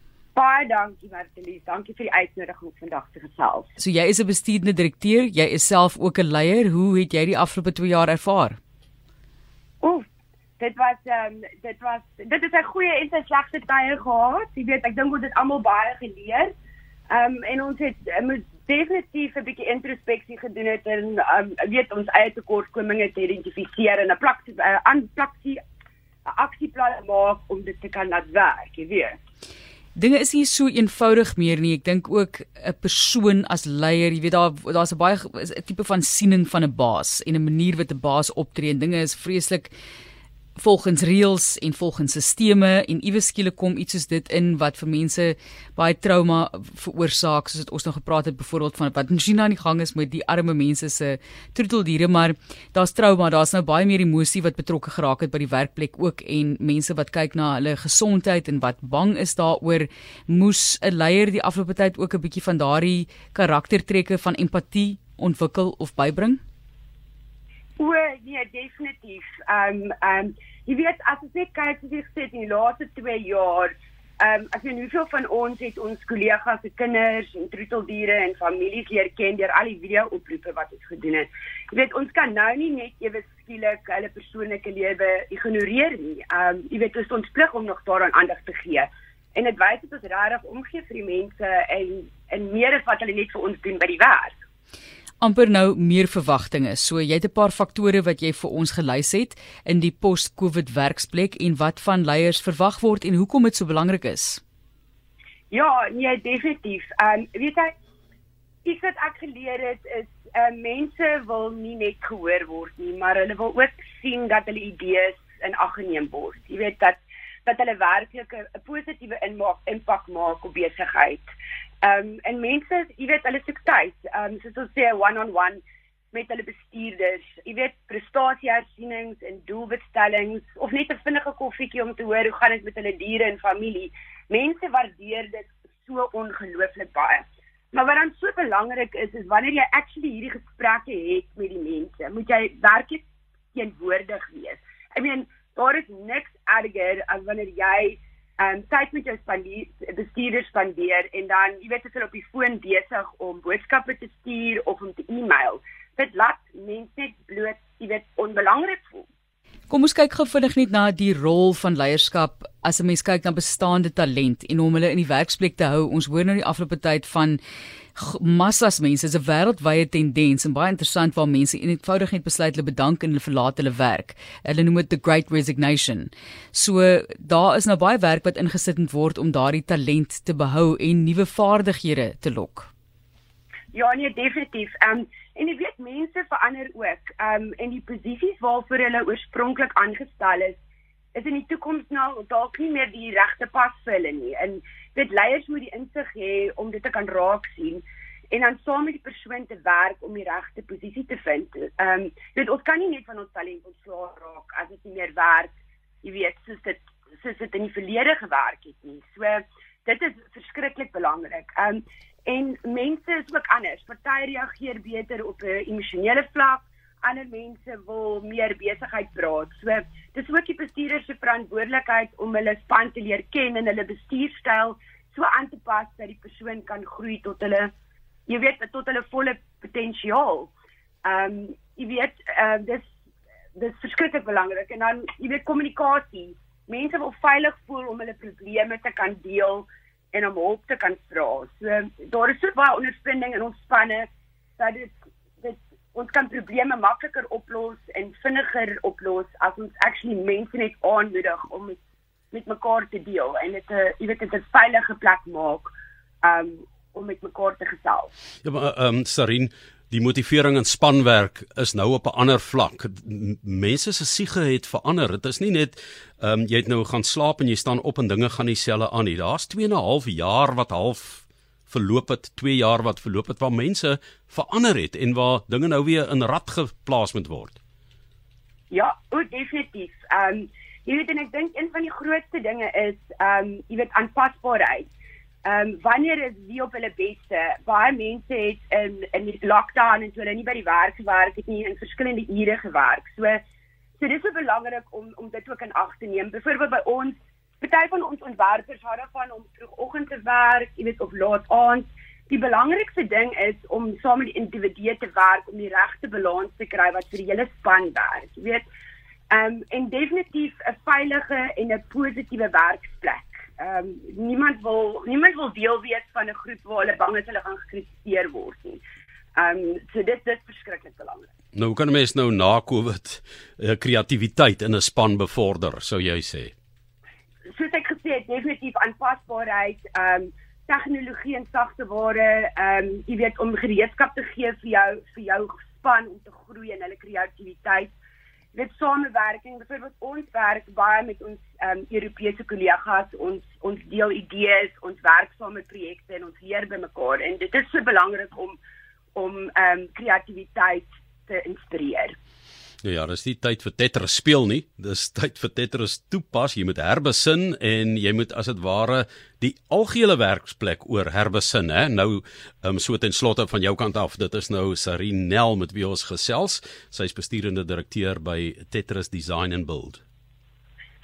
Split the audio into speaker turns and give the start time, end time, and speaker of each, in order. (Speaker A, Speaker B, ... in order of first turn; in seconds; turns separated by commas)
Speaker A: 0.4-3.7, Speaker B: 3.8-8.6, Speaker A: 9.8-10.1, Speaker A: 10.6-16.5, Speaker A: 17.1-25.6, Speaker A: 26.3-29.2, Speaker B: 29.9-39.7, Speaker B: 40.6-66.4, Speaker A: 67.8-94.3, Speaker B: 95.2-104.4, Speaker A: 105.5-107.7, Speaker A: 108.7-121.3, Speaker A: 121.8-159.1, Speaker B: 159.7-167.4, Speaker B: 168.0-182.7, Speaker A: 183.7-190.6, Speaker A: 191.2-205.5, Speaker A: 206.0-227.7, Speaker A: 228.3-230.5, Speaker A: 231.0-232.9, Speaker A: 233.6-244.1, Speaker A: 244.6-251.8, Speaker A: 252.3-258.1, Speaker C: 258.4-277.6, Speaker A: 278.7-284.9, Speaker A: 285.4-293.4, Speaker A: 294.0-308.7, Speaker A: 309.3-318.8, Speaker A: 319.4-321.3, Speaker C: 321.6-326.5, Speaker A: 327.5-337.9, Speaker A: 338.5-348.6, Speaker A: 349.1-352.2, Speaker C: 352.8-370.0